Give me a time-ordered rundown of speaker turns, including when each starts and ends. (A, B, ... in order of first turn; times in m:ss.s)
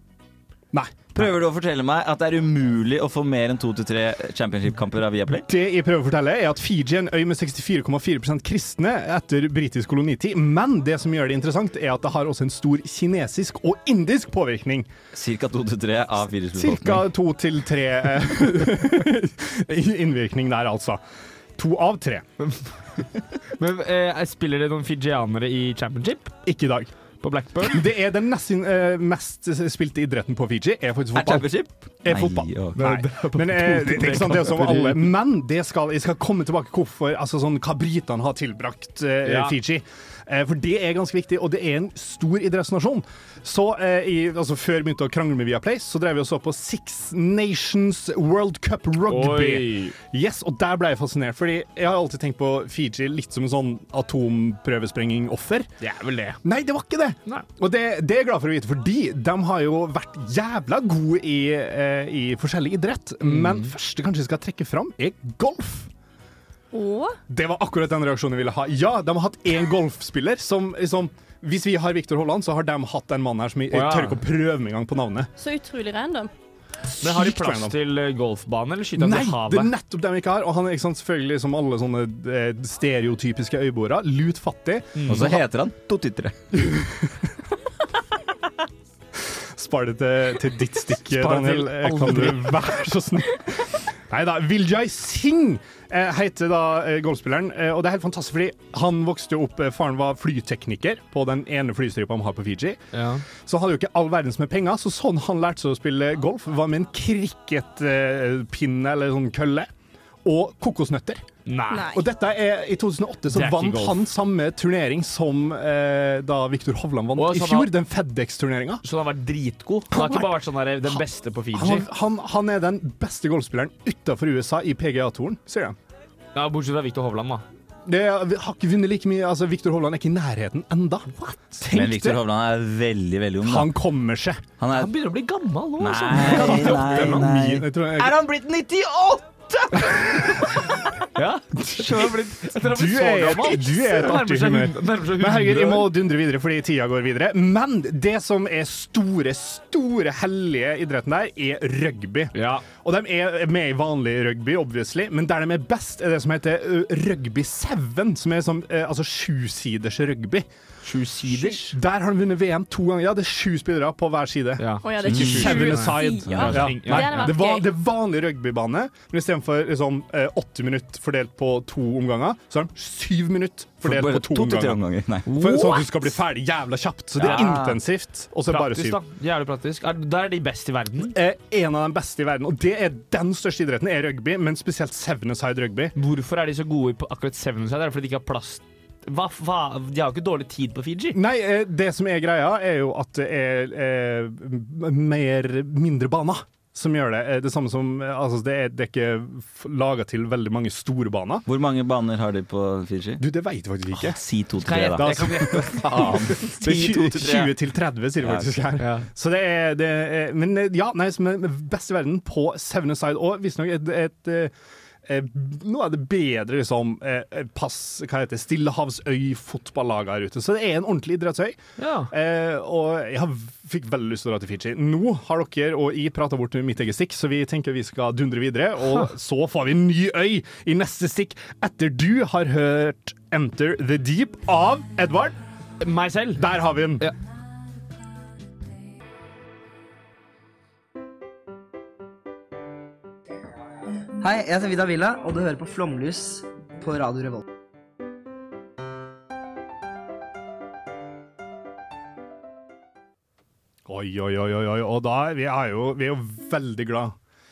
0:00.7-0:01.0 A
0:01.1-0:05.4 B
0:05.5-0:14.9 A
0:15.1-0:17.0 B
0:16.6-0:21.0 A
0:21.6-0:22.2 A
0:22.4-0:23.0 C
0:23.6-0:26.4 C
0:26.4-0:26.9 A
0:27.2-0:27.8 C
0:27.6-0:55.7 A
0:31.1-0:32.9 B
0:32.8-0:35.1 C
0:39.2-0:39.5 C
0:49.1-0:49.9 C
0:55.8-0:56.4 C
0:56.4-1:05.9 A
1:03.2-1:03.7 C
1:06.7-1:07.2 D
1:07.3-1:15.3 A
1:13.7-1:14.2 C
1:15.4-1:16.3 D
1:16.9-1:17.8 A
1:17.0-1:19.7 C
1:19.0-1:25.4 A
1:25.0-1:25.4 C
1:25.1-1:26.4 B
1:26.5-1:27.3 A
1:29.2-1:42.8 A
1:31.1-1:32.7 C
1:42.9-1:43.2 C
1:43.4-1:49.7 A
1:50.2-1:51.2 A
1:51.4-1:51.9 C
1:51.7-1:52.0 D
1:51.8-1:58.8 A
1:53.3-1:54.1 C
1:57.2-1:57.7 C
1:58.8-2:01.9 C
1:59.9-2:00.3 A
2:01.5-2:05.8 A
2:06.3-2:07.4 C
2:07.8-2:12.2 A
2:11.7-2:13.7 B
2:13.4-2:14.5 A
2:14.6-2:14.9 B
2:14.7-2:17.3 C
2:15.8-2:20.7 B
2:16.1-2:18.2 A
2:21.1-2:25.9 C
2:21.6-2:40.4 A
2:32.3-2:32.6 C
2:40.8-2:41.7 C
2:41.5-2:59.0 A
2:44.6-2:47.3 C
2:44.8-2:47.7 D
2:45.1-2:45.5 B
2:46.3-2:46.7 B
2:53.8-2:55.3 B
2:55.3-2:55.8 C
2:57.2-2:57.8 B
2:57.2-2:57.6 C
2:58.5-3:01.1 C
3:01.0-3:05.9 A
3:06.0-3:11.2 C
3:11.1-3:21.4 A
3:21.5-3:23.2 B
3:23.2-3:24.2 A
3:23.9-3:27.5 B
3:24.6-3:26.4 C
3:24.9-3:34.5 A
3:28.2-3:28.5 B
3:28.8-3:29.1 C
3:35.0-3:41.6 A
3:41.8-3:42.1 C
3:42.1-3:55.4 A
3:55.8-3:56.5 C
3:56.4-3:57.1 A
4:04.2-4:07.4 E
4:13.8-4:17.1 A